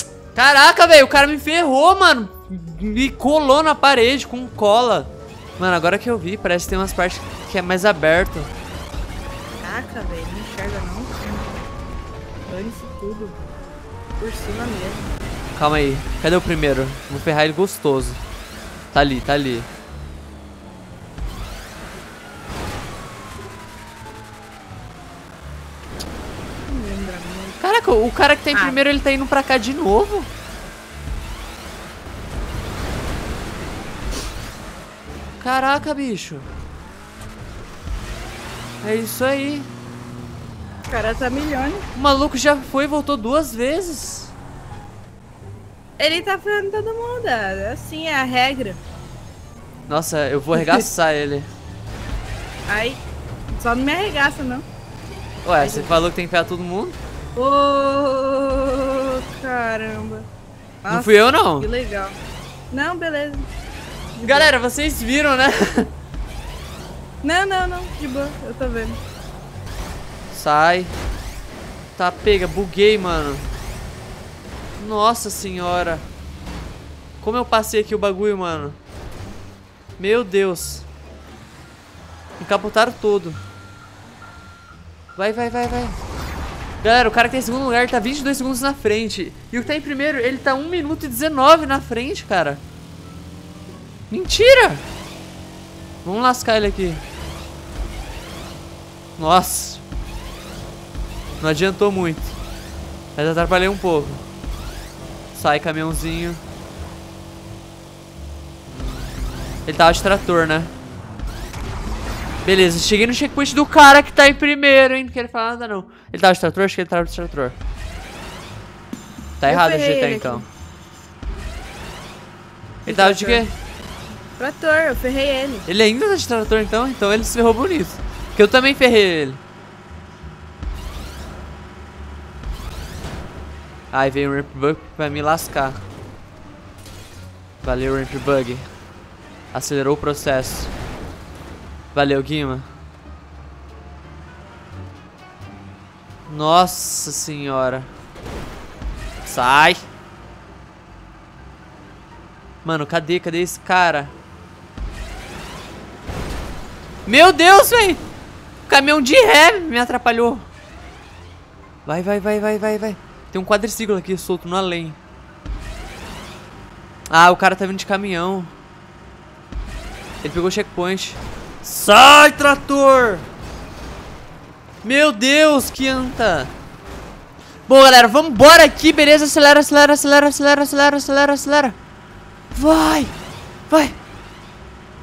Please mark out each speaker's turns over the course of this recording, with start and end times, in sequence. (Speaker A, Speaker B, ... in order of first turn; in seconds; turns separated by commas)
Speaker A: 0.3-8.5, Speaker B: 9.6-11.6, Speaker B: 12.5-13.4, Speaker B: 14.2-15.1, Speaker A: 15.6-18.2, Speaker A: 18.9-19.7, Speaker B: 26.7-27.6, Speaker A: 27.6-30.3, Speaker B: 28.5-28.8, Speaker A: 35.4-36.5, Speaker A: 38.8-39.7, Speaker B: 40.9-41.9, Speaker A: 42.0-44.3, Speaker B: 46.0-48.8, Speaker A: 49.9-51.5, Speaker B: 50.5-50.9, Speaker B: 52.7-54.7, Speaker A: 55.4-57.0, Speaker B: 55.6-56.0, Speaker B: 57.4-60.3, Speaker B: 60.8-62.2, Speaker A: 60.9-61.7, Speaker B: 62.7-63.5, Speaker B: 64.2-64.5, Speaker A: 64.2-65.9, Speaker B: 67.2-69.0, Speaker A: 70.3-70.9, Speaker A: 72.0-73.5, Speaker A: 74.8-76.1, Speaker A: 77.2-78.8, Speaker A: 80.0-80.9, Speaker A: 82.4-83.4, Speaker A: 85.2-86.0, Speaker A: 86.8-92.6, Speaker A: 94.1-94.8, Speaker A: 96.0-97.0, Speaker A: 99.2-99.8, Speaker A: 101.4-102.4, Speaker A: 103.2-104.2, Speaker A: 105.3-106.4, Speaker A: 109.7-110.7, Speaker A: 112.4-117.6, Speaker A: 119.4-120.5, Speaker B: 119.5-120.5, Speaker B: 122.9-123.5, Speaker A: 122.9-123.5, Speaker B: 124.4-125.7, Speaker A: 125.7-129.4, Speaker A: 133.9-135.8, Speaker A: 137.6-138.7, Speaker A: 139.5-140.7, Speaker A: 141.9-142.7, Speaker A: 146.3-147.9, Speaker A: 149.2-149.8, Speaker A: 152.7-154.1, Speaker A: 157.1-158.0, Speaker A: 158.7-160.5, Speaker A: 161.9-165.0, Speaker A: 167.1-168.5, Speaker A: 170.2-173.3, Speaker A: 174.8-176.5, Speaker A: 177.7-181.8, Speaker A: 182.5-183.2, Speaker A: 183.7-184.0